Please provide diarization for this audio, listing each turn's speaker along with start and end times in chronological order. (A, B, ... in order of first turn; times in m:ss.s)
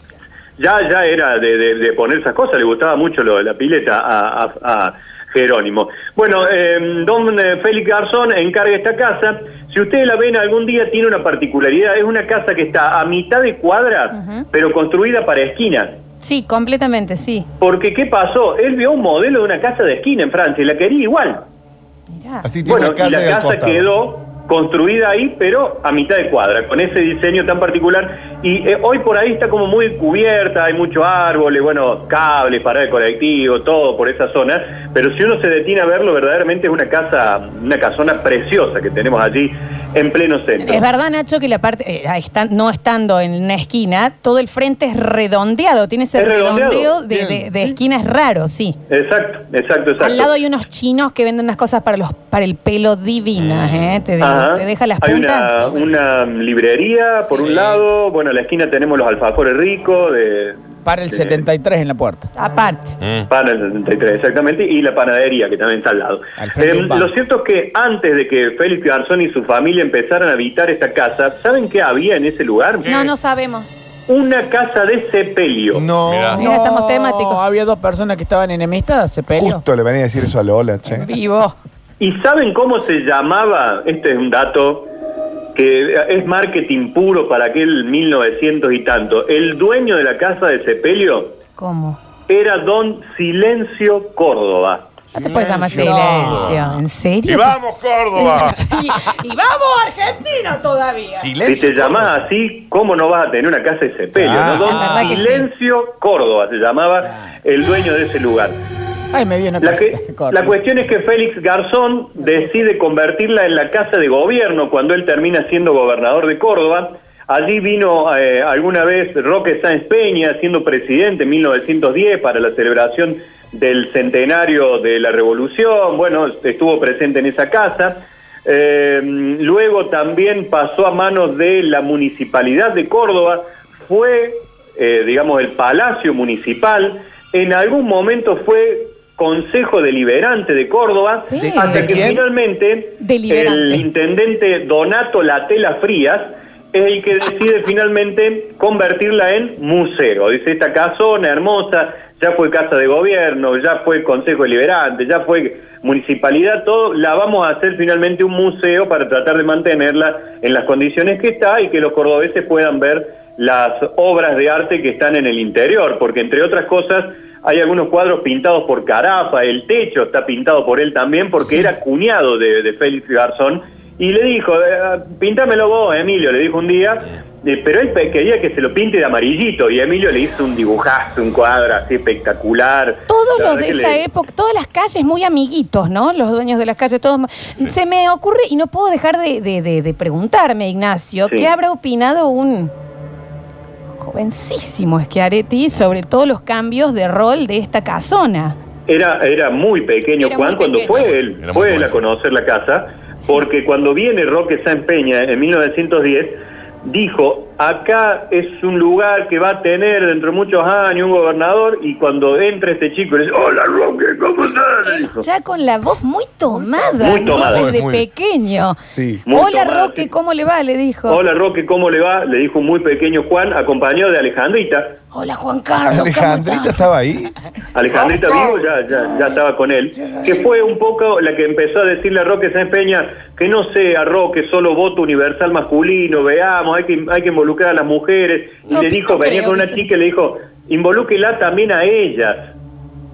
0:00.6-0:16.0 A
0:14.1-0:14.4 B
0:16.2-0:17.5 B
0:17.6-0:21.4 A
0:22.1-0:22.4 B
0:22.4-0:23.9 C
0:22.6-0:40.9 A
0:40.6-0:48.8 B
0:46.2-0:47.0 A
0:47.1-0:47.8 C
0:48.9-0:50.3 A
0:50.0-0:55.7 B
0:53.4-0:54.0 D
0:54.2-1:01.4 A
0:57.4-0:57.8 D
1:00.8-1:02.3 E
1:02.4-1:03.0 B
1:03.0-1:03.3 D
1:03.3-1:12.9 A
1:06.4-1:07.1 E
1:12.8-1:13.1 D
1:12.8-1:13.7 B
1:14.1-1:15.9 A
1:15.7-1:16.4 C
1:16.0-1:16.4 D
1:16.4-1:17.4 B
1:16.4-1:19.6 E
1:19.4-1:21.1 C
1:20.9-1:21.6 B
1:22.0-1:24.9 A
1:25.6-1:31.4 A
1:31.6-1:32.0 B
1:32.3-1:34.9 A
1:35.2-1:37.6 B
1:35.2-1:38.7 D
1:35.7-1:36.5 E
1:38.2-1:41.3 B
1:41.2-1:42.1 D
1:41.4-1:48.6 A
1:44.2-1:44.9 C
1:44.6-1:45.5 B
1:49.1-1:50.6 E
1:49.6-3:04.0 A
2:21.3-2:22.1 B
2:21.5-2:22.2 C
2:23.0-2:23.9 B
3:03.1-3:12.7 B
3:14.0-3:18.6 B
3:18.9-3:35.3 A
3:20.2-3:21.0 B
3:20.9-3:22.0 D
3:34.8-3:38.8 B
3:37.0-3:37.7 A
3:37.3-3:38.1 D
3:38.9-3:39.2 C
3:39.3-3:40.1 A
3:39.3-3:41.2 B
3:41.1-3:45.0 A
3:45.1-3:46.9 B
3:45.9-3:47.3 C
3:47.7-4:02.5 A
3:58.7-3:59.9 B